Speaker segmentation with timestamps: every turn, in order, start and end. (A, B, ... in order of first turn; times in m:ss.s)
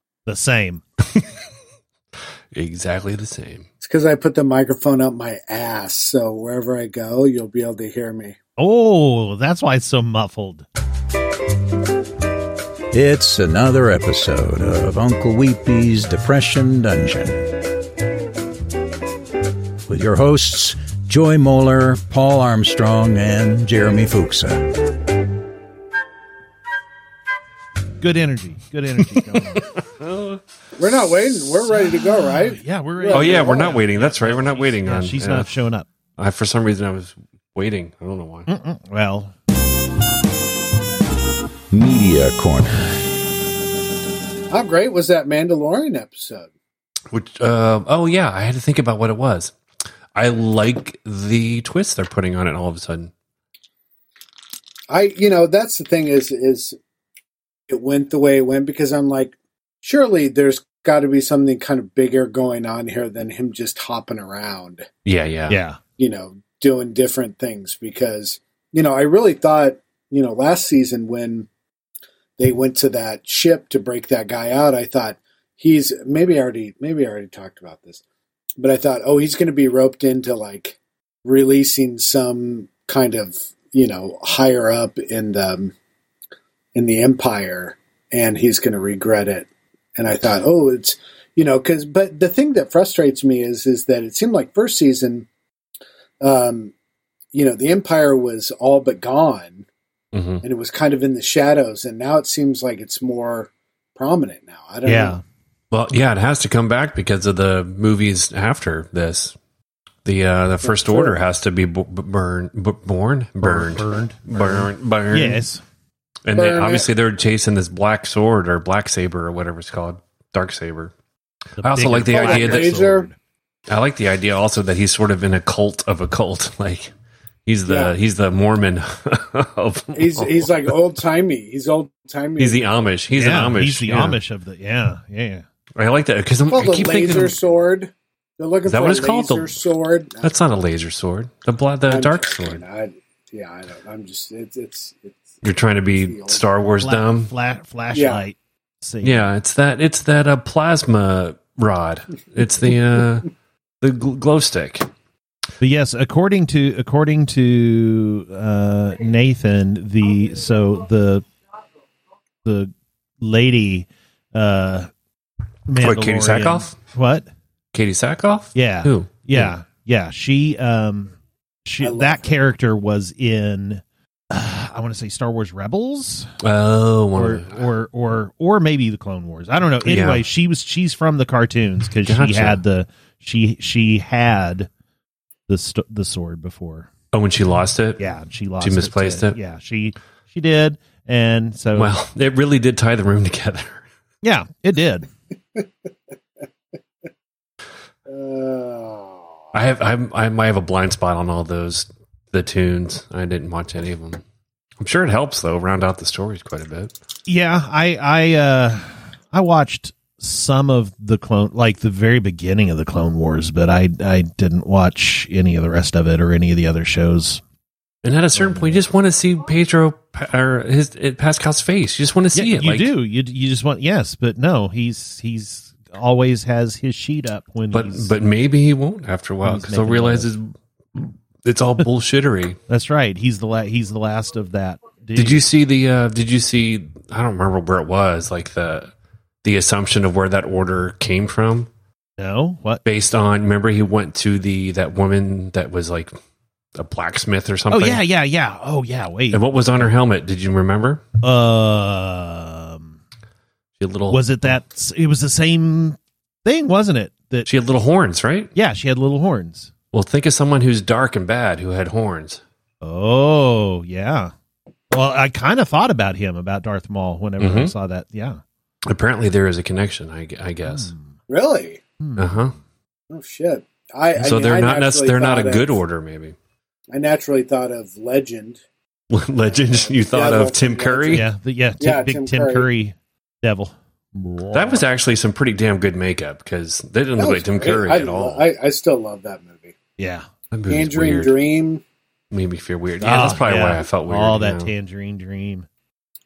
0:00.3-0:00.8 A
0:02.5-0:03.7 B
0:03.8-0:08.4 C
0:08.6-0:10.7 A
0:12.9-0:17.5 D
0:19.9-0:24.8 D
0:28.0-0:29.7 A
0:29.2-0:30.4 B
0:30.8-0:33.8 C
0:31.7-0:35.9 A
0:33.1-0:35.5 B
0:36.2-0:38.5 B
0:38.5-0:39.3 A
0:41.7-0:43.0 D
0:44.5-0:46.5 C
0:47.1-0:49.6 B
0:50.1-0:53.1 B
0:54.9-0:56.8 C
0:57.7-1:04.9 C
1:05.0-1:05.6 B
1:05.5-1:05.8 A
1:06.0-1:11.5 C
1:12.4-1:18.0 C
1:18.6-1:25.7 C
1:26.8-1:35.3 C
1:36.2-1:36.7 C
1:37.3-1:39.7 C
1:40.1-1:40.4 B
1:40.4-1:45.2 C
1:44.8-1:45.2 A
1:45.7-1:49.4 B
1:50.0-1:55.4 B
1:50.6-1:51.2 C
1:53.4-1:55.6 A
1:56.2-2:00.9 B
1:56.3-1:56.9 C
2:01.6-2:03.2 A
2:01.6-2:02.8 B
2:02.1-2:03.1 C
2:03.7-2:06.9 B
2:07.5-2:10.7 B
2:07.7-2:08.0 C
2:10.0-2:12.7 C
2:12.4-2:14.2 B
2:13.1-2:15.4 A
2:15.8-2:17.4 B
2:16.5-2:20.4 C
2:18.7-2:19.6 B
2:20.2-2:22.6 B
2:21.9-2:25.3 C
2:25.4-2:27.3 B
2:26.0-2:26.4 C
2:26.8-2:29.3 A
2:27.9-2:28.2 C
2:29.0-2:33.3 B
2:33.8-2:34.9 B
2:35.6-2:41.3 A
2:42.4-2:44.9 A
2:45.7-2:47.3 A
2:45.8-2:46.8 B
2:47.7-2:49.5 B
2:48.5-2:56.4 A
2:51.8-2:52.3 C
2:56.4-2:57.6 B
2:57.2-3:04.7 A
2:59.8-3:00.2 B
3:02.0-3:02.6 B
3:05.5-3:06.9 A
3:07.1-3:08.0 B
3:08.0-3:11.9 A
3:08.6-3:09.4 B
3:11.8-3:13.8 B
3:14.2-3:15.1 A
3:18.1-3:19.4 C
3:19.5-3:24.2 B
3:24.8-3:27.0 B
3:27.3-3:37.4 A
3:38.0-3:42.9 B
3:38.4-3:38.8 A
3:42.3-3:48.1 A
3:47.7-3:52.6 B
3:49.4-3:50.3 A
3:52.7-3:55.5 A
3:55.2-3:58.9 B
3:59.4-4:01.7 B
4:02.2-4:02.8 A
4:02.8-4:06.1 B
4:06.8-4:08.0 B
4:07.7-4:09.4 A
4:09.3-4:11.0 B
4:11.2-4:13.0 A
4:13.8-4:14.4 B
4:14.1-4:17.5 A
4:17.5-4:18.5 B
4:18.6-4:19.7 A
4:19.9-4:22.4 B
4:22.8-4:24.3 A
4:24.9-4:28.4 A
4:27.4-4:27.7 B
4:28.8-4:30.9 B
4:30.7-4:31.0 A
4:31.3-4:31.8 C
4:32.0-4:32.5 A
4:32.2-4:32.6 B
4:33.1-4:35.8 C
4:34.2-4:36.4 B
4:36.9-4:38.6 C
4:39.1-4:41.3 B
4:39.7-4:41.2 C
4:41.1-4:44.8 A
4:41.8-4:42.7 C
4:44.5-4:48.4 B
4:47.2-4:49.8 C
4:50.0-4:50.3 A
4:50.5-4:51.3 B
4:50.7-4:51.8 C
4:52.3-4:54.7 B
4:53.0-4:55.7 A